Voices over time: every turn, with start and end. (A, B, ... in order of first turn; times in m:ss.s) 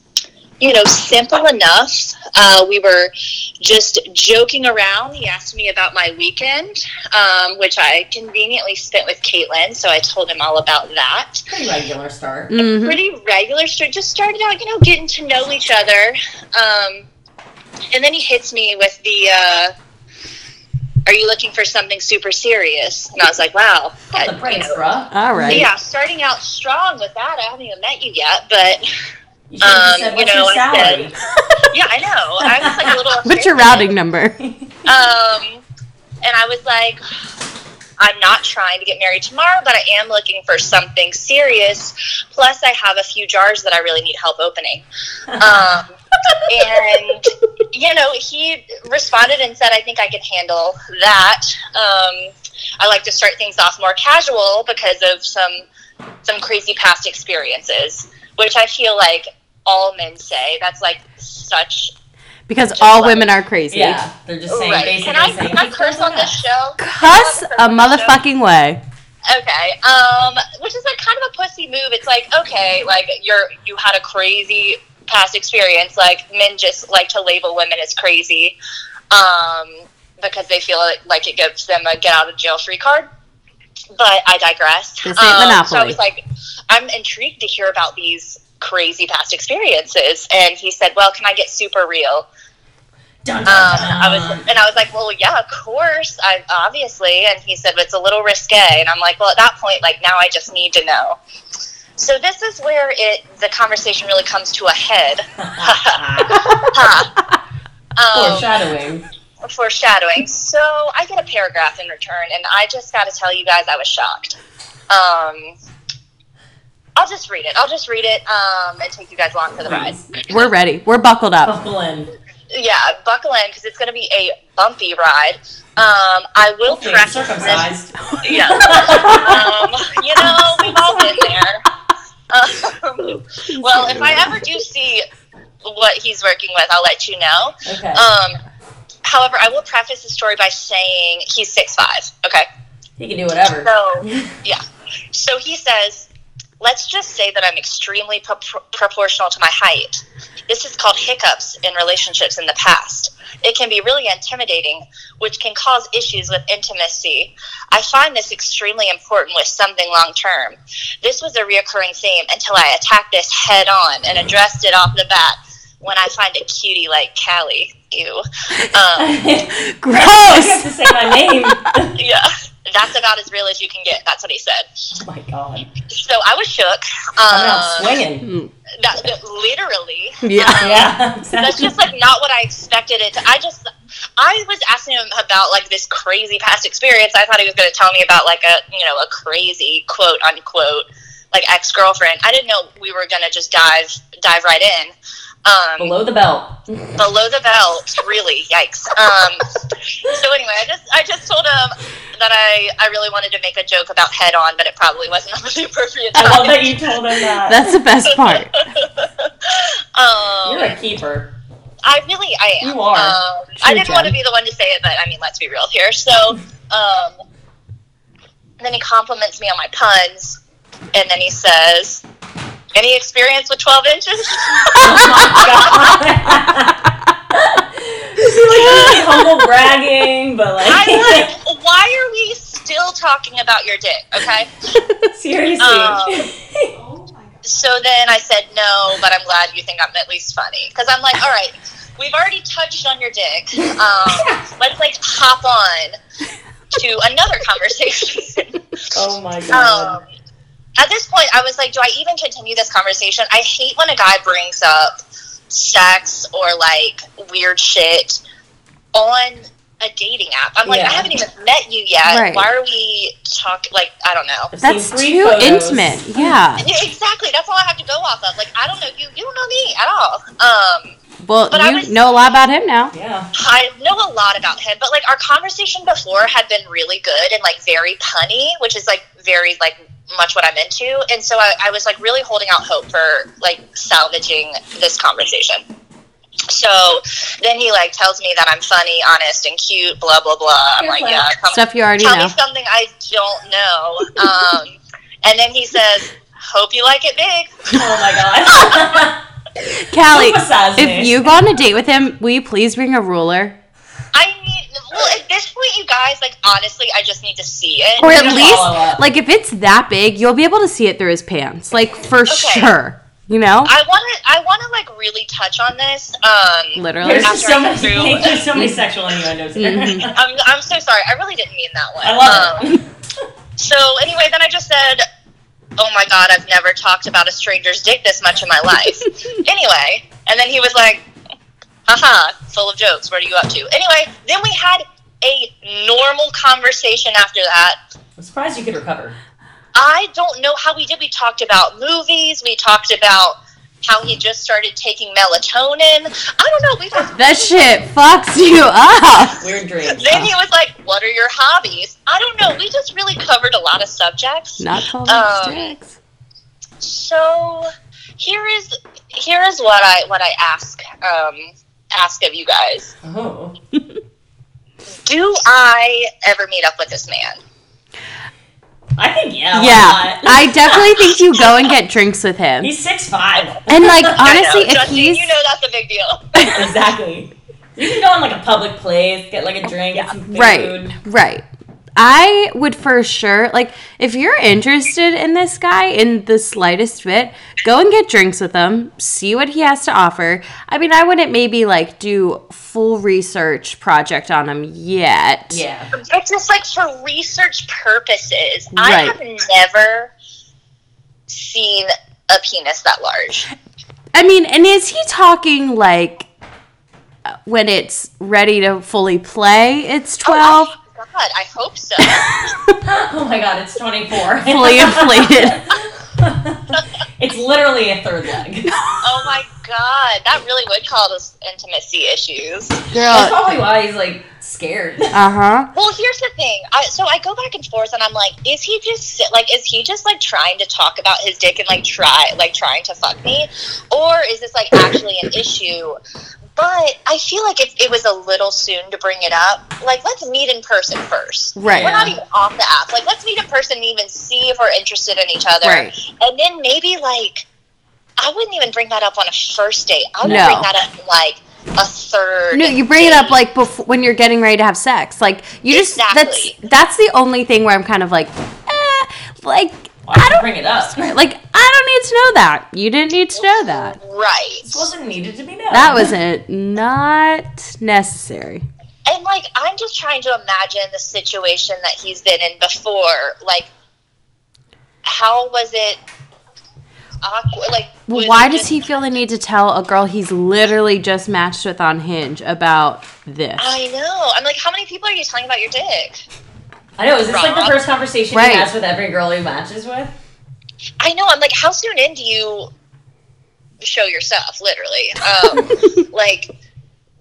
0:00.6-0:11.5 A
0:11.5-0:12.5 B
0:12.5-0:13.0 C
0:12.6-0:17.1 A
0:17.9-0:19.7 A
0:21.1-0:24.8 A
0:24.1-0:25.7 B
0:25.1-0:25.7 C
0:25.5-0:28.9 A
0:29.5-0:31.2 B
0:29.6-0:31.1 A
0:31.7-0:33.9 A
0:32.4-0:33.0 B
0:33.2-0:34.4 C
0:34.4-0:34.9 B
0:34.9-0:35.6 A
0:36.2-0:37.0 A
0:38.0-0:44.9 A
0:45.3-0:45.7 B
0:45.4-0:45.9 A
0:46.5-0:55.6 A
0:56.2-1:01.9 A
1:02.5-1:04.1 C
1:02.8-1:03.2 A
1:03.7-1:06.4 B
1:04.5-1:08.2 A
1:06.8-1:08.8 C
1:09.3-1:18.6 A
1:19.1-1:23.1 A
1:24.0-1:32.3 A
1:25.0-1:26.0 C
1:33.2-1:34.5 B
1:33.5-1:41.2 A
1:42.0-1:47.1 A
1:45.4-1:46.9 B
1:48.0-1:48.5 A
1:48.1-1:49.0 B
1:49.4-1:54.4 A
1:54.9-1:55.6 A
1:57.0-2:00.4 A
1:59.6-2:00.1 B
2:00.2-2:01.5 C
2:01.4-2:02.1 B
2:02.5-2:11.6 A
2:06.7-2:09.4 B
2:08.0-2:09.3 C
2:12.3-2:15.1 A
2:13.1-2:14.4 C
2:15.6-2:18.4 A
2:17.6-2:18.1 B
2:19.0-2:22.5 A
2:23.0-2:24.3 B
2:23.6-2:26.1 A
2:26.6-2:49.2 A
2:49.0-2:52.0 B
2:49.5-2:51.7 C
2:52.0-2:54.7 A
2:55.0-2:55.7 B
2:55.9-2:58.0 A
2:57.3-2:58.2 B
2:58.2-2:58.5 C
2:58.8-3:03.7 A
3:00.2-3:00.7 C
3:00.6-3:01.8 B
3:04.2-3:14.9 A
3:15.4-3:15.9 A
3:15.8-3:17.1 B
3:17.0-3:19.5 A
3:20.0-3:26.9 A
3:26.2-3:27.8 B
3:27.5-3:28.6 C
3:28.1-3:30.8 A
3:30.4-3:31.3 B
3:31.8-3:37.2 A
3:32.6-3:33.2 B
3:33.6-3:34.2 C
3:38.6-3:40.4 A
3:40.9-3:42.0 A
3:42.8-3:46.0 A
3:44.8-3:51.3 B
3:45.0-3:45.2 C
3:48.3-3:49.0 C
3:48.6-3:49.0 A
3:50.6-3:54.5 A
3:55.0-3:56.9 B
3:55.6-3:56.3 A
3:57.4-4:06.0 A
4:04.1-4:04.4 B
4:06.7-4:08.5 A
4:08.9-4:10.0 B
4:09.5-4:10.0 A
4:10.8-4:15.0 A
4:15.5-4:18.2 A
4:18.9-4:24.5 A
4:20.7-4:21.1 B
4:22.1-4:22.5 C
4:24.5-4:26.4 B
4:24.6-4:26.7 C
4:26.6-4:30.9 A
4:31.2-4:32.9 C
4:31.5-4:31.9 A
4:32.9-4:33.3 B
4:33.4-4:45.6 A
4:46.5-4:57.9 A
4:50.8-4:51.3 B
4:51.5-4:52.4 C
4:57.7-4:59.2 B
4:59.6-5:03.6 C
5:00.1-5:01.3 B
5:04.1-5:08.6 A
5:08.0-5:13.7 C
5:08.0-5:09.0 B
5:12.3-5:12.7 A
5:13.7-5:18.5 A
5:16.8-5:17.4 C
5:17.0-5:20.2 B
5:19.6-5:20.1 C
5:20.1-5:22.7 A
5:22.0-5:22.8 B
5:23.6-5:25.0 A
5:25.8-5:31.0 A
5:31.9-5:37.8 A
5:38.2-5:39.2 B
5:39.8-5:47.8 A
5:47.1-5:49.4 C
5:49.4-5:50.2 B
5:49.9-5:55.7 A
5:54.6-5:56.0 C
5:56.8-6:02.9 A
6:03.0-6:03.6 B
6:05.0-6:07.4 A
6:09.0-6:10.9 B
6:09.5-6:12.7 C
6:12.6-6:14.2 B
6:13.7-6:15.3 C
6:14.1-6:16.5 A
6:16.4-6:16.6 C
6:16.5-6:21.0 B
6:20.3-6:21.4 C
6:22.0-6:35.6 C
6:35.5-6:35.9 B
6:35.9-6:40.1 A
6:38.7-6:39.2 C
6:41.3-6:43.5 A
6:44.1-6:46.3 C
6:47.5-6:50.7 C
6:50.3-6:52.3 A
6:52.0-6:52.8 C
6:52.8-6:58.7 B
6:54.4-6:55.6 C
6:59.0-7:02.9 A
7:02.9-7:03.4 C
7:03.1-7:05.2 B
7:05.1-7:05.7 C
7:05.7-7:16.0 A
7:16.6-7:27.5 A
7:21.6-7:22.1 C
7:21.7-7:22.2 B
7:25.6-7:25.9 C
7:28.2-7:33.4 A
7:30.2-7:30.5 B
7:30.2-7:30.7 C
7:32.5-7:44.0 C
7:35.7-7:36.6 A
7:40.1-7:41.2 B
7:43.7-7:44.9 A
7:44.6-7:46.1 B
7:45.7-7:48.6 C
7:49.1-7:53.7 A
7:55.0-7:56.0 A
7:57.2-7:58.8 A
7:58.1-8:03.8 C
8:03.6-8:06.2 A
8:07.0-8:10.2 B
8:07.3-8:07.8 A
8:08.3-8:08.7 C
8:11.0-8:12.7 A
8:13.8-8:16.5 A